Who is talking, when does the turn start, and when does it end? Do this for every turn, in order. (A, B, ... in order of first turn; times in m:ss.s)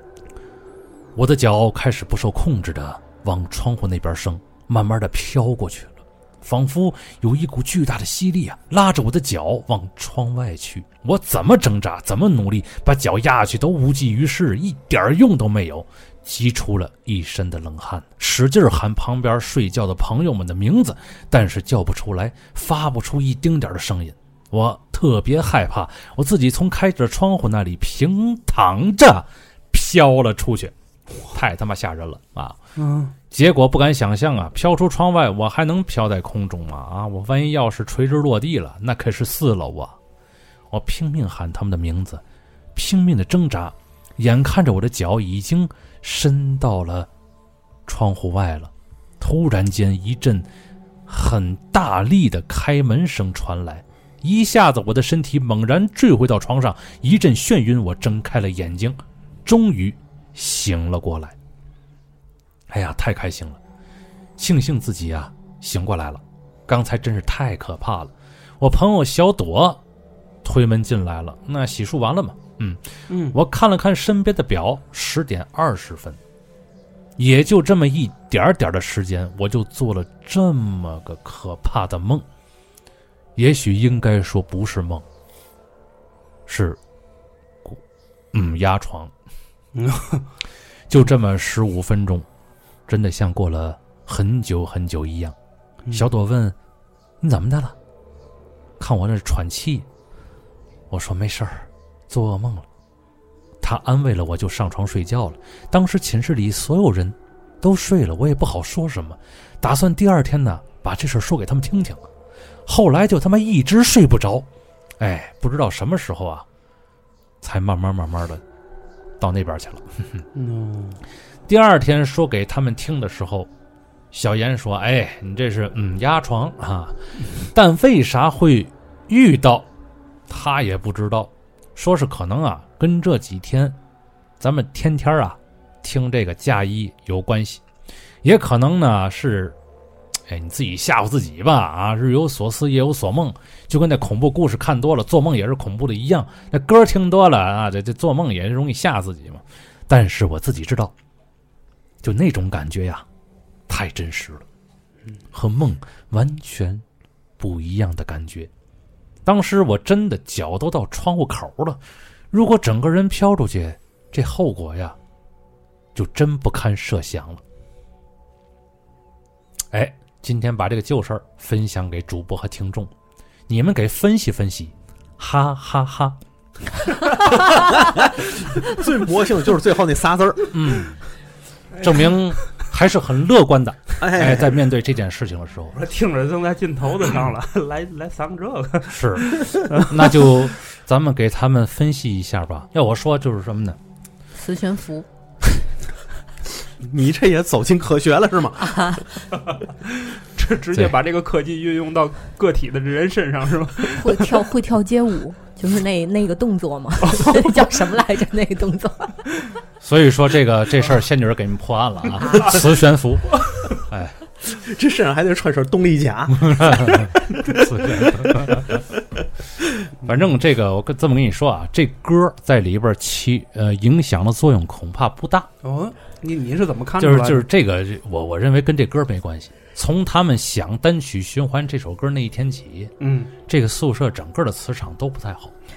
0:01.2-0:30.7 A
0:31.3-0:32.6 A
0:32.8-0:33.2 B
0:33.3-0:40.0 A
0:40.7-0:42.2 A
0:42.8-0:47.1 A
0:47.9-0:50.5 A
0:51.1-1:01.4 A
1:02.7-1:03.6 A
1:04.4-1:09.8 A
1:10.4-1:16.2 A
1:13.1-1:13.4 B
1:17.2-1:22.2 A
1:23.4-1:25.0 A
1:26.5-1:26.8 A
1:28.3-1:29.1 A
1:29.7-1:30.3 B
1:30.9-1:32.3 A
1:32.9-1:35.4 A
1:35.9-1:36.6 A
1:37.2-1:37.8 A
1:38.8-1:39.9 A
1:40.9-1:42.7 A
1:43.6-1:52.0 A
1:52.7-1:54.5 A
1:55.0-1:56.5 A
1:57.4-1:58.4 A
1:59.2-2:00.2 A
2:00.3-2:01.0 B
2:01.5-2:03.5 A
2:04.1-2:09.7 A
2:10.3-2:13.8 A
2:14.4-2:17.6 A
2:18.2-2:19.6 A
2:20.3-2:30.9 A
2:32.0-2:33.0 A
2:33.7-2:34.4 A
2:35.3-2:36.8 A
2:37.4-2:38.5 A
2:39.2-2:41.8 A
2:42.3-2:45.0 A
2:46.0-2:47.4 A
2:49.7-2:52.9 A
2:53.5-2:56.2 A
2:57.3-3:00.5 C
3:00.5-3:01.0 A
3:01.8-3:05.8 A
3:04.0-3:04.6 C
3:05.7-3:10.3 B
3:08.9-3:13.8 A
3:14.3-3:15.1 D
3:16.8-3:19.0 C
3:18.6-3:19.1 D
3:19.5-3:24.4 B
3:24.0-3:29.2 D
3:29.8-3:34.2 A
3:34.5-3:37.1 C
3:36.3-3:38.8 A
3:40.0-3:45.5 A
3:45.6-3:47.5 B
3:47.0-3:52.9 A
3:53.0-3:53.3 B
3:53.5-3:55.5 A